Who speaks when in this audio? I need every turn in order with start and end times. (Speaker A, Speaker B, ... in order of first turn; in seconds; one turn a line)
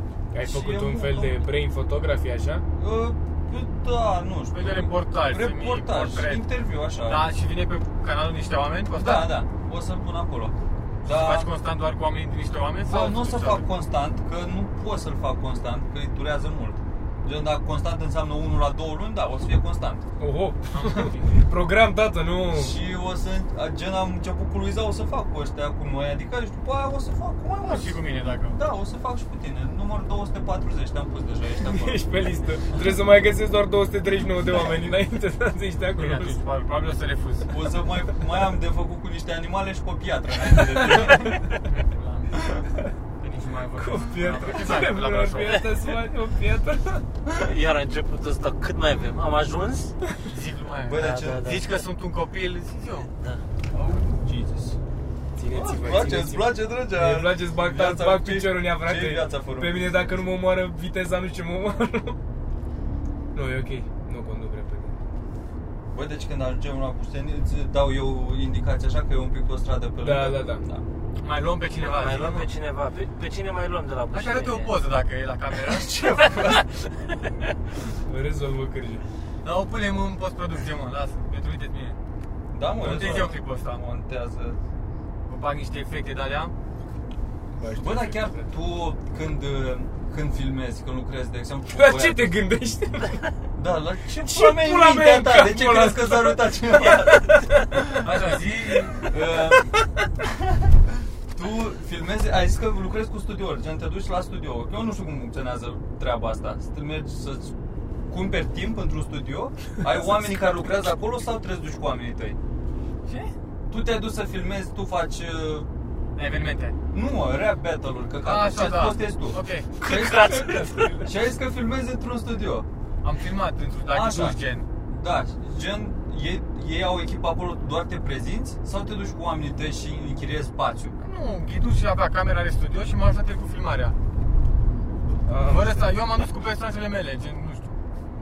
Speaker A: 0.3-2.6
Speaker B: 0.4-1.4
Speaker B: 2.8-7.2
Speaker C: 4.5-6.4
Speaker C: 7.0-9.4
Speaker B: 8.9-11.5
Speaker C: 11.1-13.7
Speaker B: 12.8-20.1
Speaker A: 20.2-22.7
Speaker C: 20.7-21.4
Speaker B: 22.5-27.9
Speaker C: 27.6-28.6
Speaker B: 28.5-32.0
Speaker A: 31.6-36.4
Speaker C: 36.0-37.6
Speaker B: 37.5-41.4
Speaker A: 40.7-41.4
Speaker C: 41.6-42.6
Speaker C: 43.2-45.7
Speaker A: 43.8-47.0
Speaker D: 47.3-50.0
Speaker C: 50.3-53.1
Speaker B: 50.8-51.5
Speaker D: 50.9-51.8
Speaker B: 53.7-54.8
Speaker A: 55.4-62.2
Speaker B: 55.5-59.9
Speaker A: 63.3-64.9
Speaker B: 65.9-70.8
Speaker A: 70.0-70.6
Speaker C: 71.2-72.5
Speaker D: 71.8-74.7
Speaker C: 74.1-75.9
Speaker B: 75.7-76.6
Speaker A: 78.1-79.0
Speaker C: 79.4-82.0
Speaker B: 82.5-84.6
Speaker C: 82.8-83.8
Speaker A: 82.8-83.3
Speaker C: 85.3-86.5
Speaker A: 87.6-88.5
Speaker B: 87.8-92.3
Speaker A: 91.7-93.3
Speaker B: 93.5-98.3
Speaker A: 94.2-97.7
Speaker C: 98.0-99.1
Speaker B: 99.0-99.7
Speaker B: 101.3-107.5
Speaker B: 108.1-112.4
Speaker C: 113.0-113.3
Speaker B: 113.7-115.7
Speaker C: 116.1-116.8
Speaker B: 116.9-122.7
Speaker C: 118.2-119.7
Speaker D: 119.8-121.0
Speaker A: 119.9-121.1
Speaker C: 123.0-124.7
Speaker B: 123.9-130.9
Speaker C: 131.0-133.9
Speaker A: 135.2-135.8
Speaker C: 135.4-137.7